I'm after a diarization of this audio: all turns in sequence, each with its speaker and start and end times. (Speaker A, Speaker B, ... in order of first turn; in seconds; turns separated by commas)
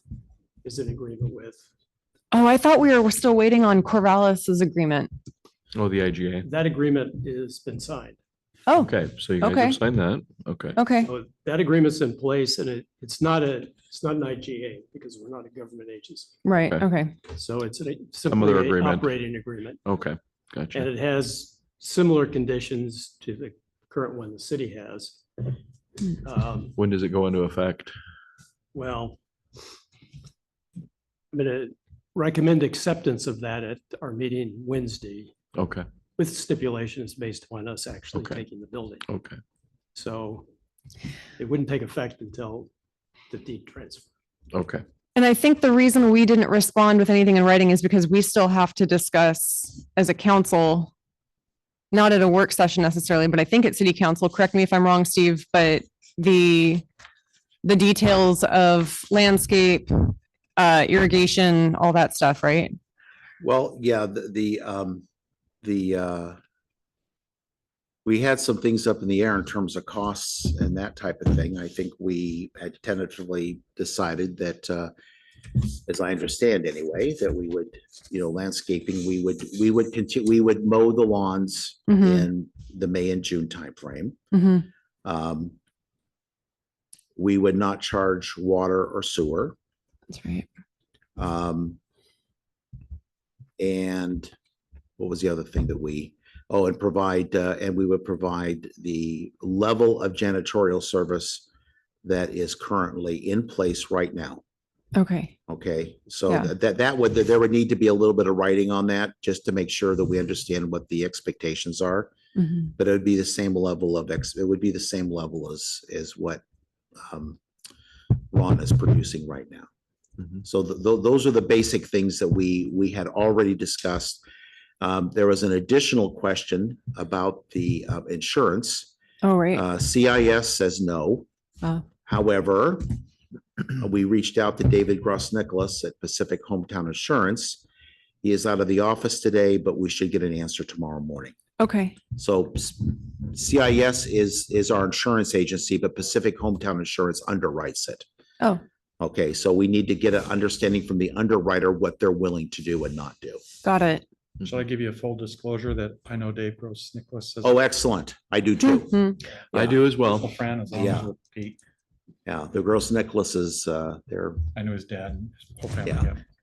Speaker A: 0.6-1.6, Speaker B: 2.3-5.1, Speaker C: 5.7-6.5, Speaker A: 6.4-8.2, Speaker B: 8.7-9.8, Speaker C: 8.8-10.8, Speaker B: 10.8-11.1, Speaker A: 11.1-16.4, Speaker B: 16.4-17.1, Speaker A: 17.3-19.8, Speaker C: 18.3-19.2, Speaker C: 19.9-20.9, Speaker A: 20.7-25.2, Speaker A: 26.2-26.8, Speaker C: 26.8-27.9, Speaker A: 28.7-29.2, Speaker A: 31.3-35.3, Speaker C: 35.5-35.9, Speaker A: 36.2-39.1, Speaker C: 38.2-38.4, Speaker C: 39.1-39.4, Speaker A: 40.0-40.5, Speaker A: 41.4-42.7, Speaker A: 43.3-44.1, Speaker C: 44.5-44.8, Speaker B: 45.2-50.9, Speaker B: 51.9-56.9, Speaker B: 57.6-62.8, Speaker D: 63.4-65.0, Speaker D: 65.6-66.4, Speaker D: 68.0-74.9, Speaker D: 75.6-84.2, Speaker B: 81.9-82.3, Speaker B: 84.3-84.7, Speaker D: 85.0-85.5, Speaker D: 87.2-89.5, Speaker B: 90.1-90.5, Speaker D: 91.2-91.8, Speaker D: 93.6-94.3, Speaker D: 95.0-101.5, Speaker D: 102.0-104.4, Speaker B: 105.0-105.3, Speaker D: 105.5-112.1, Speaker B: 112.4-112.7, Speaker D: 112.8-116.4, Speaker D: 117.0-117.4, Speaker D: 118.3-119.7, Speaker D: 120.4-124.2, Speaker D: 124.8-128.9, Speaker B: 129.2-129.6, Speaker D: 129.5-131.3, Speaker D: 132.1-132.9, Speaker D: 133.6-137.6, Speaker D: 138.2-141.3, Speaker B: 141.6-142.0, Speaker D: 142.2-148.0, Speaker D: 149.0-153.4, Speaker B: 153.6-154.0, Speaker E: 154.4-157.6, Speaker D: 157.4-159.8, Speaker B: 158.7-159.2, Speaker C: 159.5-160.3, Speaker E: 160.0-161.6, Speaker D: 160.7-161.1, Speaker D: 162.2-164.4, Speaker E: 164.6-166.2